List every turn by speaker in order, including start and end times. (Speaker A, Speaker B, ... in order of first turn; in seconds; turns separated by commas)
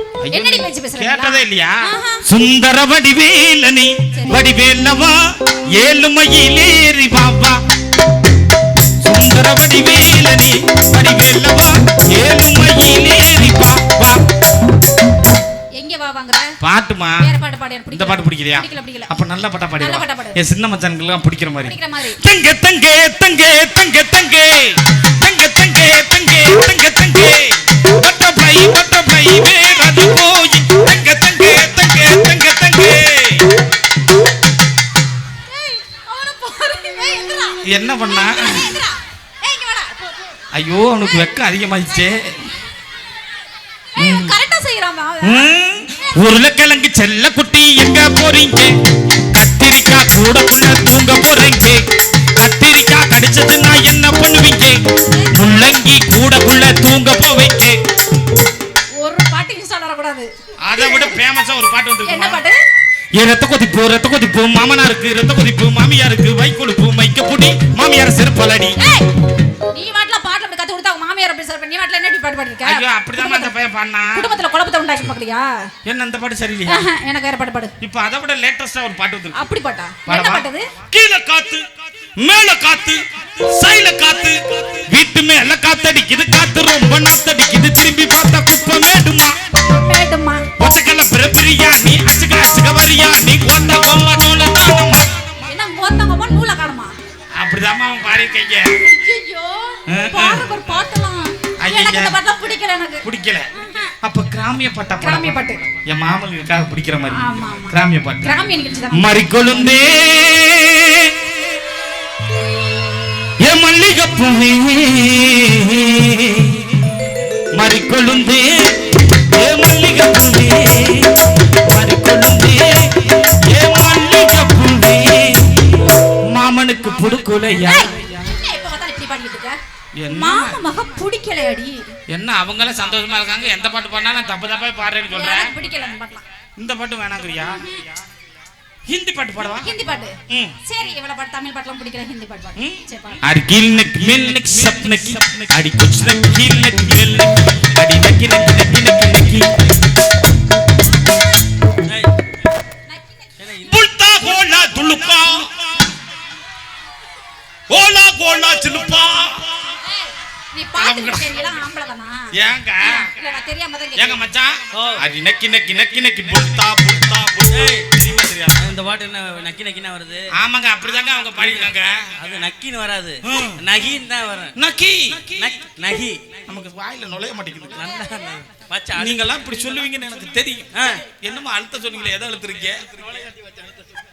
Speaker A: 0.2-7.6, Speaker B: 0.3-2.2, Speaker B: 4.1-4.5, Speaker A: 9.0-14.2, Speaker B: 15.8-16.5, Speaker A: 16.6-17.3, Speaker B: 17.2-19.1, Speaker A: 17.9-33.5, Speaker B: 19.8-20.4, Speaker B: 21.6-22.2, Speaker B: 35.3-40.1, Speaker A: 37.6-38.8, Speaker A: 40.5-42.4, Speaker B: 44.0-45.5, Speaker A: 44.0-44.3, Speaker A: 45.2-48.7, Speaker A: 49.3-51.8, Speaker A: 52.4-54.8, Speaker B: 55.1-55.7, Speaker A: 55.3-57.8, Speaker B: 59.0-61.2, Speaker A: 60.6-62.4, Speaker B: 62.0-62.6, Speaker A: 63.1-68.8, Speaker B: 68.8-69.0, Speaker B: 69.7-73.5, Speaker A: 72.6-74.3, Speaker B: 74.2-75.5, Speaker A: 75.8-76.8, Speaker B: 76.7-77.7, Speaker A: 77.8-79.4, Speaker B: 79.3-80.7, Speaker A: 80.0-81.7, Speaker A: 82.2-89.3, Speaker B: 89.6-90.5, Speaker A: 90.6-95.1, Speaker B: 95.4-96.9, Speaker A: 97.4-98.8, Speaker B: 98.8-103.9, Speaker A: 99.9-100.5, Speaker A: 101.6-102.2, Speaker A: 103.0-103.5, Speaker A: 104.0-108.3, Speaker B: 105.0-105.6, Speaker B: 107.1-109.1, Speaker A: 108.9-111.5, Speaker A: 113.4-116.9, Speaker A: 117.5-127.9, Speaker B: 127.6-129.6, Speaker A: 130.0-130.6, Speaker B: 130.1-131.8, Speaker A: 132.1-135.5, Speaker B: 135.1-136.2, Speaker A: 136.6-137.6, Speaker B: 137.4-137.8, Speaker A: 138.9-139.7, Speaker B: 139.4-140.1, Speaker A: 140.3-140.6, Speaker B: 140.6-143.2, Speaker A: 142.6-149.4, Speaker B: 152.9-153.3, Speaker C: 153.4-153.8, Speaker A: 153.6-155.6, Speaker B: 154.3-154.9, Speaker A: 157.7-159.4, Speaker B: 159.9-164.2, Speaker A: 160.8-161.3, Speaker A: 162.3-163.1, Speaker A: 163.9-168.6, Speaker C: 164.7-165.0, Speaker C: 167.5-170.3, Speaker A: 170.3-172.1, Speaker C: 171.4-174.5, Speaker A: 173.2-173.6, Speaker A: 174.6-175.5, Speaker C: 175.2-176.4, Speaker A: 176.4-177.9, Speaker C: 177.7-179.2, Speaker A: 178.9-183.0, Speaker C: 180.7-181.0